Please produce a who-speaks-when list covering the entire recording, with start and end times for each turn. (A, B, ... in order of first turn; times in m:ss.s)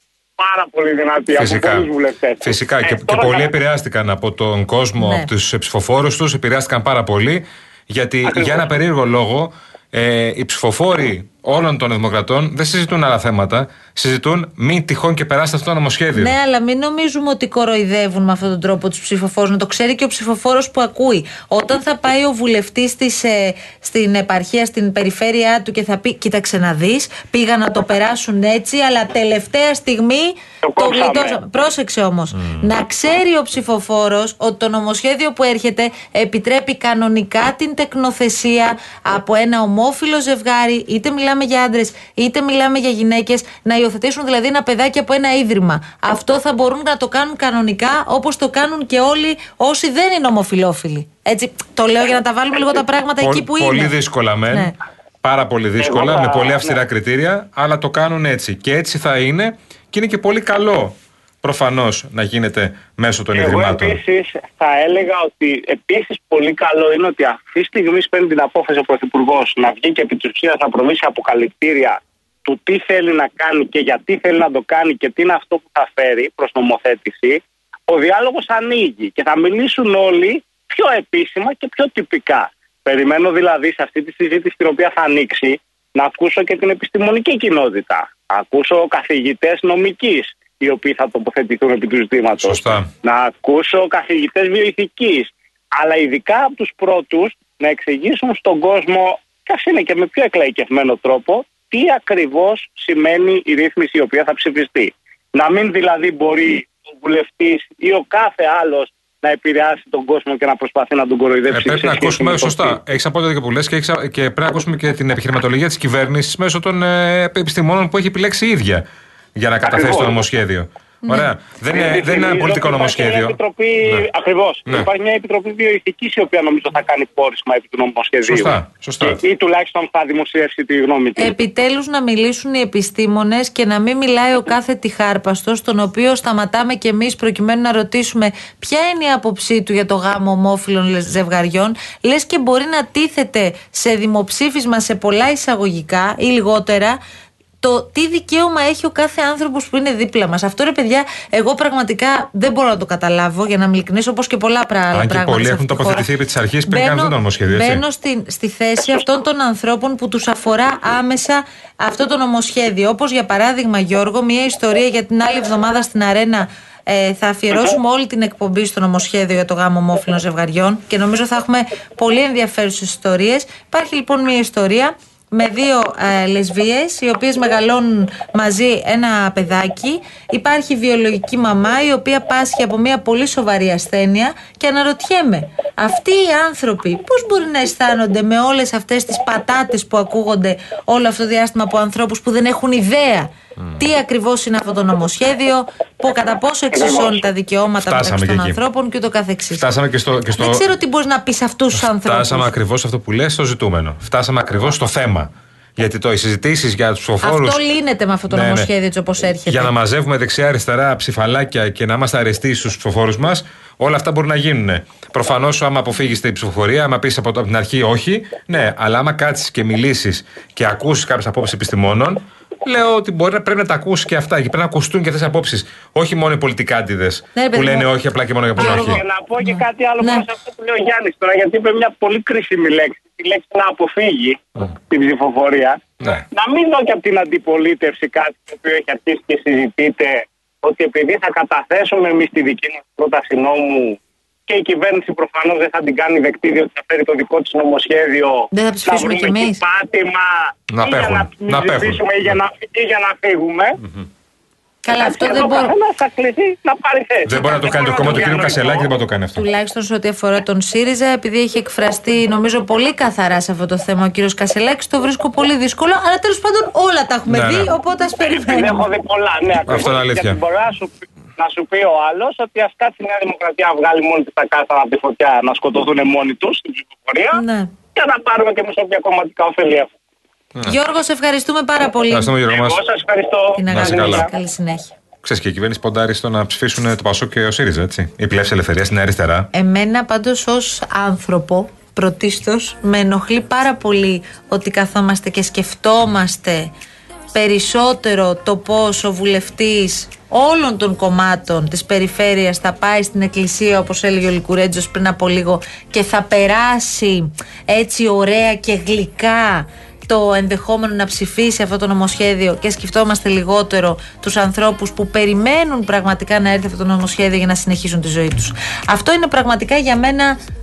0:00.4-0:03.5 A
0:01.3-0:01.9 B
0:02.4-0:16.4 B
0:05.0-0:05.3 C
0:08.2-0:08.7 A
0:16.2-0:54.0 C
0:30.6-0:31.4 A
0:32.4-0:32.6 B
0:53.2-0:54.7 B
0:55.2-1:04.0 B
0:55.8-0:56.8 A
1:03.3-1:52.8 A
1:32.4-1:32.9 B
1:51.5-2:04.1 B
1:59.6-2:00.2 A
2:01.7-2:11.3 A
2:08.2-2:09.2 B
2:11.2-2:27.0 C
2:27.6-2:36.1 C
2:34.9-2:37.8 B
2:36.7-3:19.7 C
3:16.7-3:17.2 A
3:17.8-3:18.6 B
3:19.6-3:20.6 B
3:20.4-3:22.5 C
3:21.8-3:27.6 B
3:27.2-3:29.7 C
3:28.3-3:28.7 B
3:29.5-3:49.0 B
3:47.4-3:47.9 C
3:48.6-3:50.3 C
3:48.6-3:54.4 A
3:54.9-3:55.8 A
3:56.3-4:13.8 A
4:08.5-4:09.6 C
4:10.7-4:12.4 B
4:14.8-4:15.7 C
4:14.9-4:18.9 A
4:17.2-4:19.5 B
4:19.4-4:28.8 C
4:27.3-4:27.7 B
4:28.4-4:37.4 A
4:29.7-4:30.4 B
4:37.3-4:37.7 C
4:38.0-4:39.9 A
4:40.7-4:42.4 C
4:42.1-4:42.8 B
4:42.5-4:44.3 A
4:43.6-4:44.9 C
4:43.7-4:44.3 B
4:45.2-4:49.5 B
4:49.5-4:56.7 C
4:57.3-5:20.4 C